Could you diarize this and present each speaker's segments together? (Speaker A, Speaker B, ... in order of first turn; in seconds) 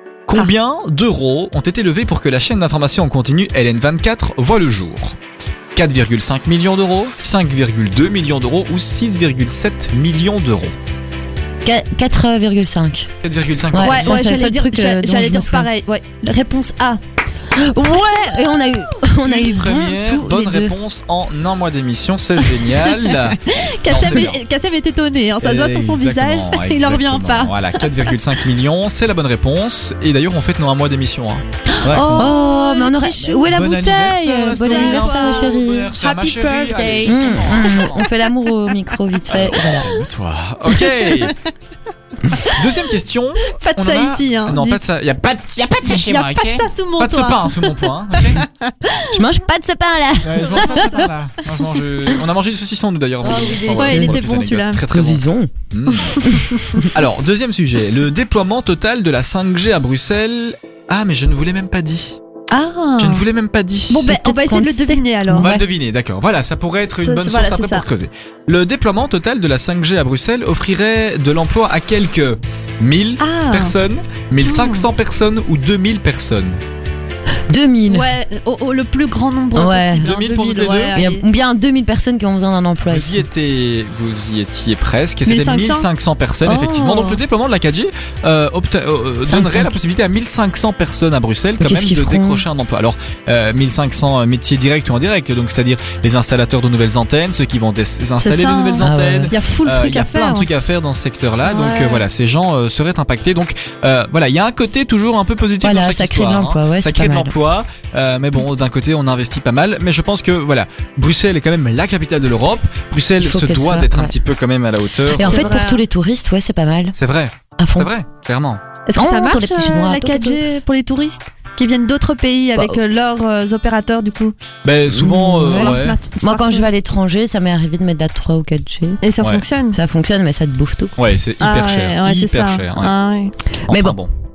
Speaker A: 0.3-5.2, 5.7-10.8, 13.2-14.1, 19.2-24.4, 25.4-32.3, 33.5-38.0, 39.3-41.3, 42.5-45.7, 47.0-48.4, 50.2-56.2, 56.9-62.2, 63.0-64.1, 65.4-76.6, 80.0-81.0, 82.8-115.5, 116.9-118.6, 124.6-126.0, 131.0-132.9, 133.7-134.1
Speaker B: 11.6-13.1, 13.7-15.7, 17.5-20.7, 32.1-35.9, 37.0-39.9, 49.1-51.1, 53.2-54.2, 54.8-55.5, 56.1-56.9, 64.0-65.7, 77.5-78.1, 79.5-80.1, 80.9-83.3, 89.2-89.8, 91.6-92.5, 98.8-99.3, 105.6-107.4, 113.2-114.2, 115.1-116.9, 117.6-117.9, 119.0-120.4, 124.9-129.0, 129.7-131.0, 133.7-134.0
Speaker C: 13.8-17.0, 22.6-28.1, 31.8-33.5, 34.5-37.9, 40.7-41.5, 42.3-42.6, 43.6-44.8, 45.8-49.2, 50.4-51.6, 53.7-54.9, 56.1-56.9, 62.5-63.2, 63.9-65.5, 67.0-67.9, 73.2-73.8, 74.4-74.9, 77.9-81.2, 85.2-85.9, 86.5-87.2, 98.2-100.5, 101.4-102.0, 115.1-115.8, 118.9-124.3, 125.4-126.7, 129.0-129.8, 131.4-133.3